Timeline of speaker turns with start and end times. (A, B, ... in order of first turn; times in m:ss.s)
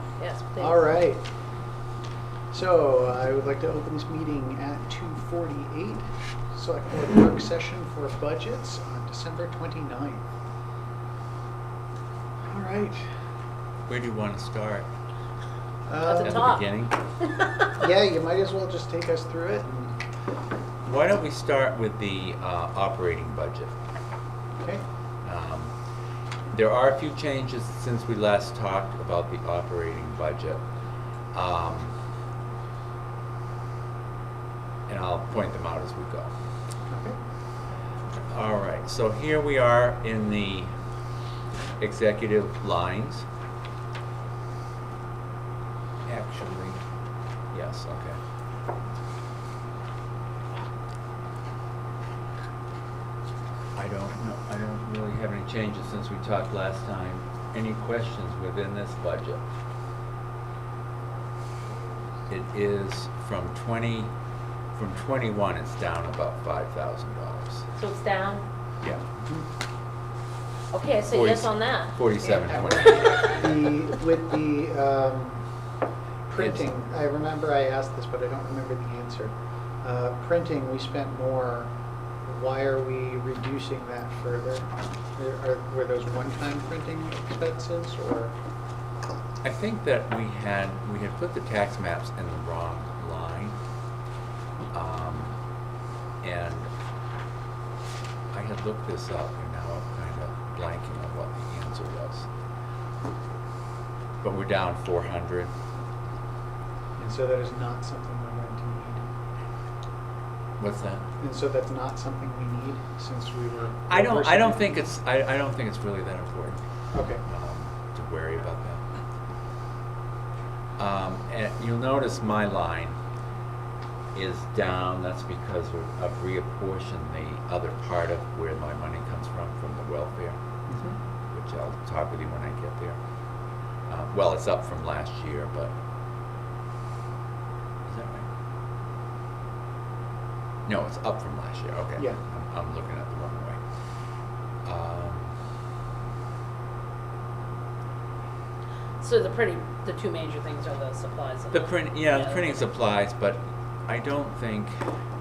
0:00.2-0:00.8 A
0:00.6-0:01.2 B
0:02.5-0:10.2 B
0:12.5-0:13.0 B
0:13.9-0:14.9 C
0:15.9-0:16.5 B
0:16.0-0:16.6 A
0:16.2-0:16.9 C
0:17.2-0:17.7 A
0:17.8-0:20.0 B
0:20.8-0:23.8 C
0:25.2-0:25.7 C
0:26.5-0:30.6 C
0:31.3-0:31.9 C
0:34.9-0:36.3 C
0:36.9-0:37.2 B
0:38.3-0:40.7 C
0:41.8-0:43.2 C
0:46.0-0:46.8 C
0:47.5-0:48.2 C
0:53.7-0:59.4 C
1:02.3-1:04.1 C
1:04.7-1:07.7 C
1:07.8-1:08.4 A
1:09.1-1:09.4 B
1:10.7-1:13.4 A
1:11.1-1:13.2 C
1:13.0-1:15.4 B
1:16.3-1:21.7 B
1:16.4-1:16.7 C
1:22.2-1:28.4 B
1:29.4-1:33.6 C
1:34.7-1:35.4 C
1:36.2-1:36.7 C
1:38.3-1:42.3 C
1:44.2-1:45.5 C
1:47.0-1:49.1 B
1:50.6-1:51.0 C
1:51.2-1:54.8 B
1:53.9-1:56.6 C
1:56.9-1:57.2 B
1:57.2-1:58.8 C
2:00.8-2:03.0 C
2:04.1-2:10.4 C
2:10.7-2:11.0 B
2:11.3-2:13.0 C
2:13.9-2:15.7 C
2:17.8-2:18.2 C
2:20.6-2:23.6 C
2:24.6-2:25.3 C
2:29.0-2:32.6 A
2:31.5-2:34.8 C